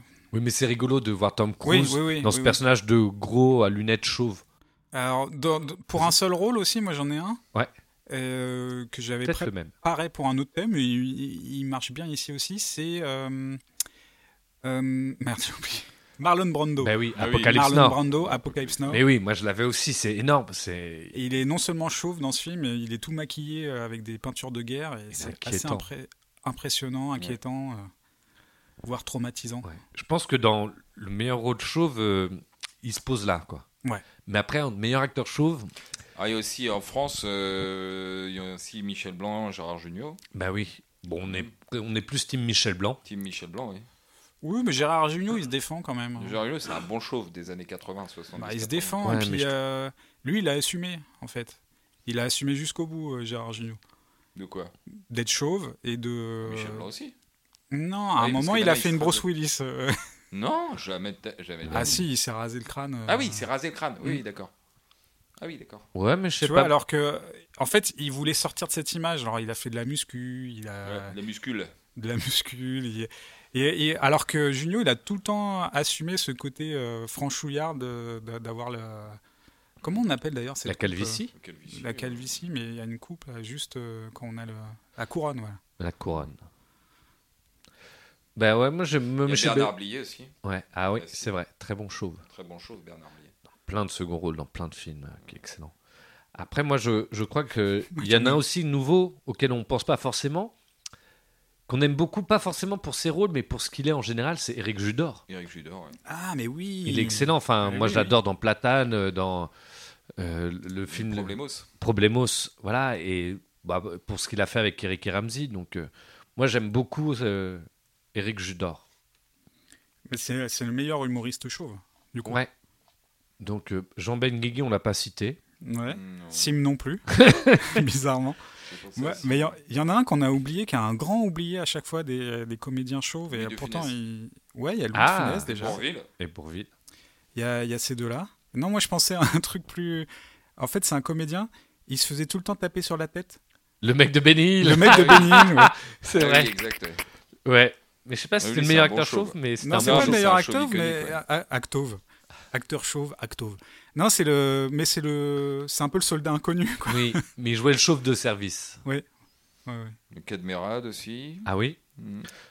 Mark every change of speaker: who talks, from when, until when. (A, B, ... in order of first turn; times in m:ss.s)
0:00.3-0:04.4 A
0:01.6-0:02.6 B
0:04.9-0:07.4 B
0:08.1-0:13.6 B
0:09.2-0:09.7 A
0:14.6-0:17.0 B
0:16.8-0:18.0 A
0:17.2-0:19.0 C
0:17.5-0:19.0 B
0:18.9-0:21.2 A
0:21.1-0:27.9 B
0:25.1-0:25.9 A
0:28.8-0:29.8 B
0:29.6-0:33.6 A
0:34.2-0:35.7 A
0:36.2-0:40.2 C
0:40.3-0:43.0 A
0:43.0-0:43.8 C
0:44.4-0:46.4 B
0:46.2-0:49.0 C
0:48.4-0:53.8 B
0:49.0-0:49.5 A
0:54.3-0:54.7 C
0:55.1-0:56.9 B
0:56.4-0:57.1 C
0:57.7-1:00.0 B
0:58.2-0:59.2 C
1:00.3-1:02.0 C
1:01.7-1:02.0 A
1:01.7-1:03.4 B
1:03.1-1:04.5 C
1:05.4-1:05.8 C
1:05.9-1:06.7 A
1:06.4-1:11.1 B
1:10.8-1:11.7 C
1:12.0-1:19.2 B
1:19.8-1:25.6 B
1:20.6-1:21.3 A
1:21.3-1:22.4 C
1:25.8-1:26.4 A
1:28.4-1:29.7 A
1:29.2-1:30.3 C
1:30.4-1:32.2 A
1:31.0-1:31.3 C
1:32.3-1:33.3 C
1:33.6-1:35.7 A
1:36.3-1:40.5 A
1:37.9-1:38.4 B
1:41.7-1:45.2 A
1:45.3-1:46.0 C
1:46.1-1:48.1 B
1:46.8-1:49.5 A
1:50.2-1:58.8 A
1:50.9-1:51.7 C
2:00.1-2:02.4 B
2:02.2-2:02.5 A
2:03.4-2:05.4 A
2:05.6-2:08.4 B
2:05.9-2:06.5 C
2:07.2-2:07.7 A
2:08.6-2:09.6 C
2:09.0-2:15.8 B
2:13.3-2:13.9 C
2:14.9-2:15.5 A
2:15.5-2:16.1 C
2:16.2-2:16.7 A
2:17.3-2:23.4 B
2:23.8-2:26.6 A
2:24.6-2:25.7 B
2:24.8-2:25.4 C
2:26.1-2:27.0 C
2:27.4-2:30.2 A
2:28.4-2:31.2 C
2:29.6-2:32.0 B
2:32.5-2:37.2 B
2:36.8-2:38.8 A
2:39.6-2:40.0 B
2:40.1-2:42.3 C
2:41.4-2:41.8 A